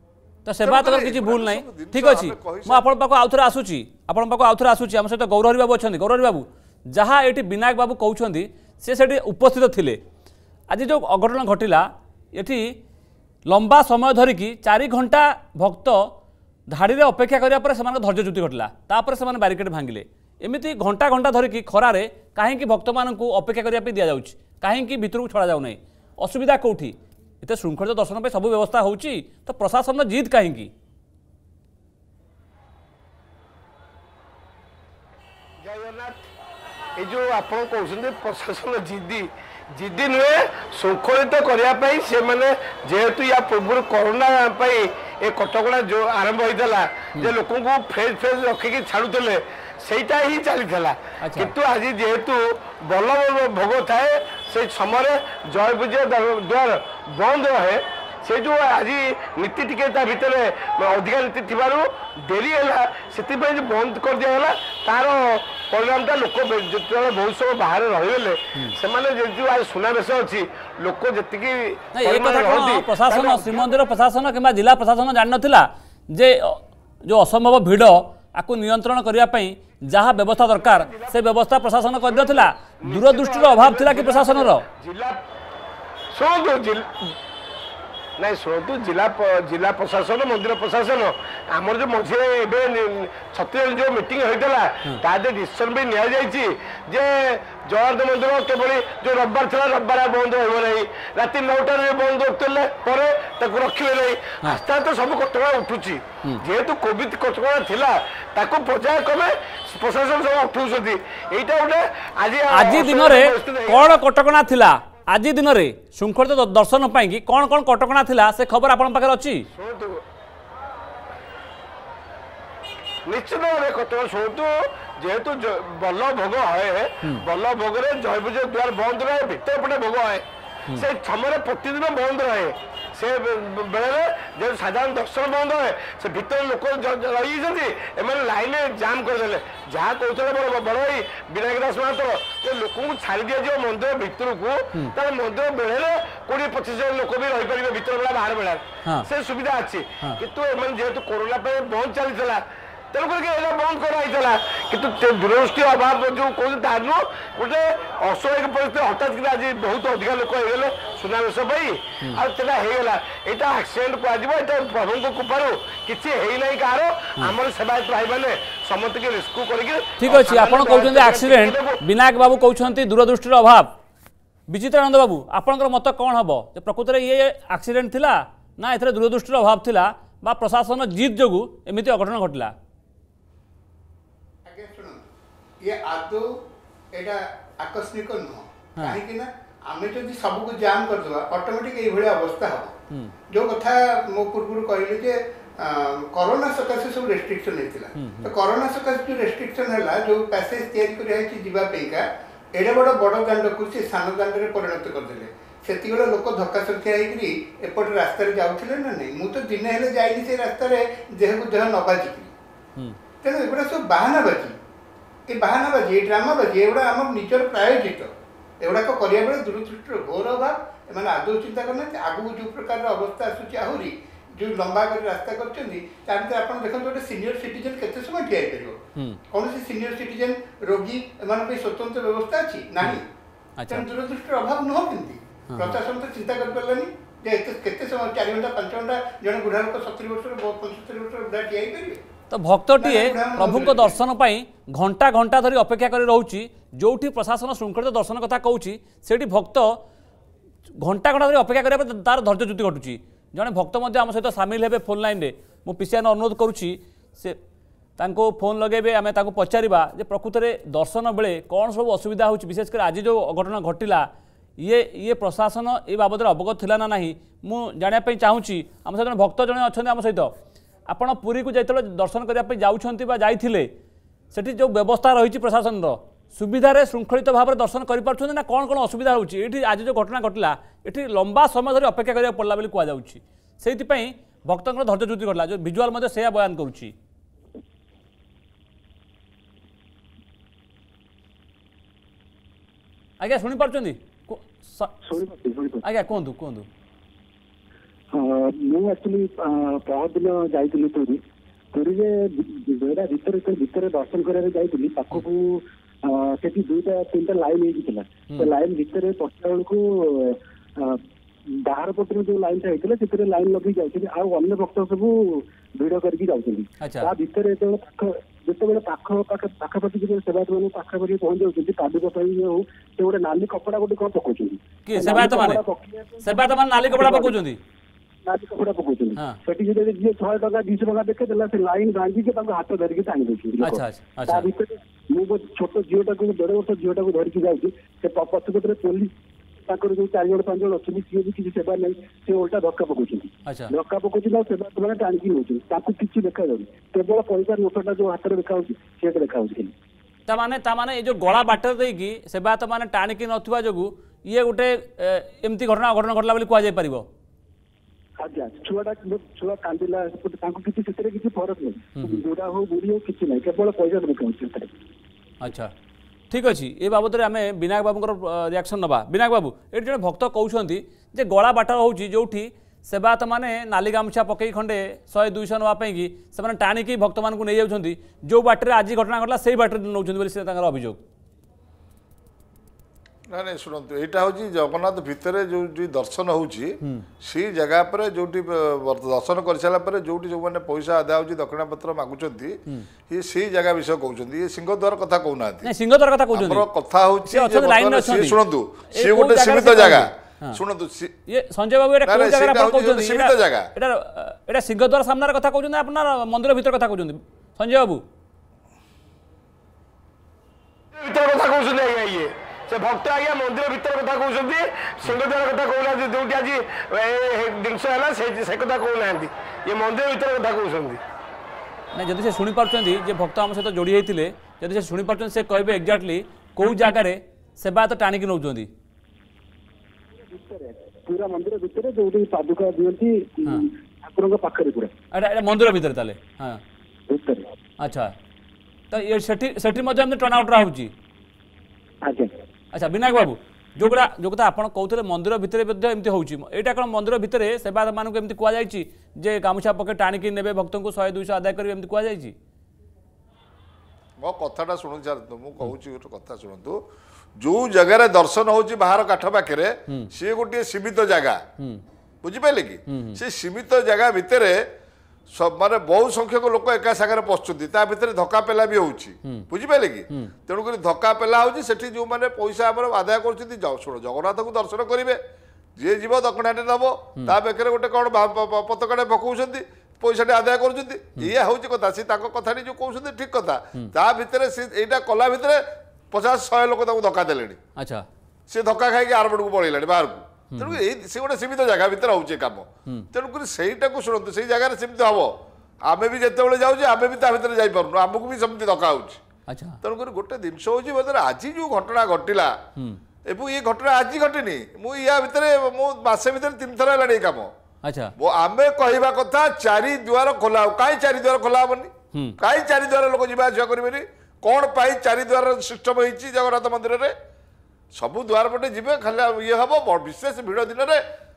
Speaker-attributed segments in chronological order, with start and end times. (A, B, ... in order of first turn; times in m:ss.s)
0:00.4-0:10.0 A
0:00.6-0:02.8 B
0:10.7-0:12.7 A
0:13.5-0:16.1 A
0:16.7-0:30.7 A
0:35.6-0:36.2 C
0:37.0-1:13.8 C
0:51.2-0:51.5 A
1:11.9-1:24.6 A
1:20.6-1:21.2 C
1:22.1-1:25.2 C
1:26.1-1:27.1 C
1:28.2-1:54.0 C
1:52.5-1:59.4 A
1:59.5-2:00.0 C
2:03.0-2:10.2 C
2:10.7-2:51.8 C
2:50.0-2:53.7 A
2:54.5-3:02.5 A
3:04.4-3:05.0 D
3:05.6-3:06.3 D
3:06.9-3:12.7 D
3:12.9-3:13.1 A
3:13.3-3:32.3 D
3:18.0-3:18.3 A
3:33.2-3:34.6 D
3:35.3-3:53.0 D
3:53.6-3:53.8 A
3:53.7-4:02.0 D
3:55.5-3:55.8 A
4:02.3-4:09.8 A
4:02.8-4:04.0 D
4:10.8-4:17.4 A
4:18.0-4:24.1 A
4:24.6-4:30.3 A
4:30.9-4:33.7 A
4:34.3-4:46.9 A
4:53.2-4:55.0 A
4:55.1-4:55.8 E
4:55.8-4:56.7 A
4:58.1-5:01.2 E
5:01.7-5:11.0 E
5:11.6-5:27.4 E
5:16.8-5:17.1 A
5:24.8-5:25.6 A
5:26.2-5:27.6 A
5:28.2-5:39.1 E
5:33.6-5:34.5 A
5:39.6-5:49.7 E
5:43.5-5:43.7 A
5:50.3-5:57.0 A
5:58.2-6:04.7 E
6:02.0-6:02.2 A
6:05.4-6:05.7 A
6:06.3-6:21.0 A
6:23.3-6:32.6 B
6:26.8-6:27.1 A
6:33.1-6:35.7 B
6:35.6-6:36.6 A
6:36.3-6:41.1 B
6:37.3-6:38.4 A
6:38.9-6:40.6 A
6:41.3-6:48.0 A
6:42.0-6:43.7 B
6:50.9-7:01.0 C
7:01.9-7:08.7 A
7:10.3-7:14.9 E
7:15.1-7:16.6 A
7:17.1-7:17.5 E
7:17.8-7:18.1 A
7:18.9-7:20.9 A
7:22.0-7:22.3 E
7:22.7-7:32.3 A
7:34.2-7:36.8 B
7:37.4-7:41.4 B
7:42.2-7:44.6 B
7:42.9-7:43.2 A
7:45.3-7:55.2 B
7:55.8-8:07.6 B
8:07.8-8:08.0 A
8:08.5-8:15.3 B
8:10.5-8:10.8 A
8:15.9-8:19.2 B
8:19.5-8:19.8 A
8:19.8-8:22.6 B
8:23.3-8:27.5 B
8:27.8-8:28.1 A
8:28.2-8:37.1 B
8:38.0-8:41.0 B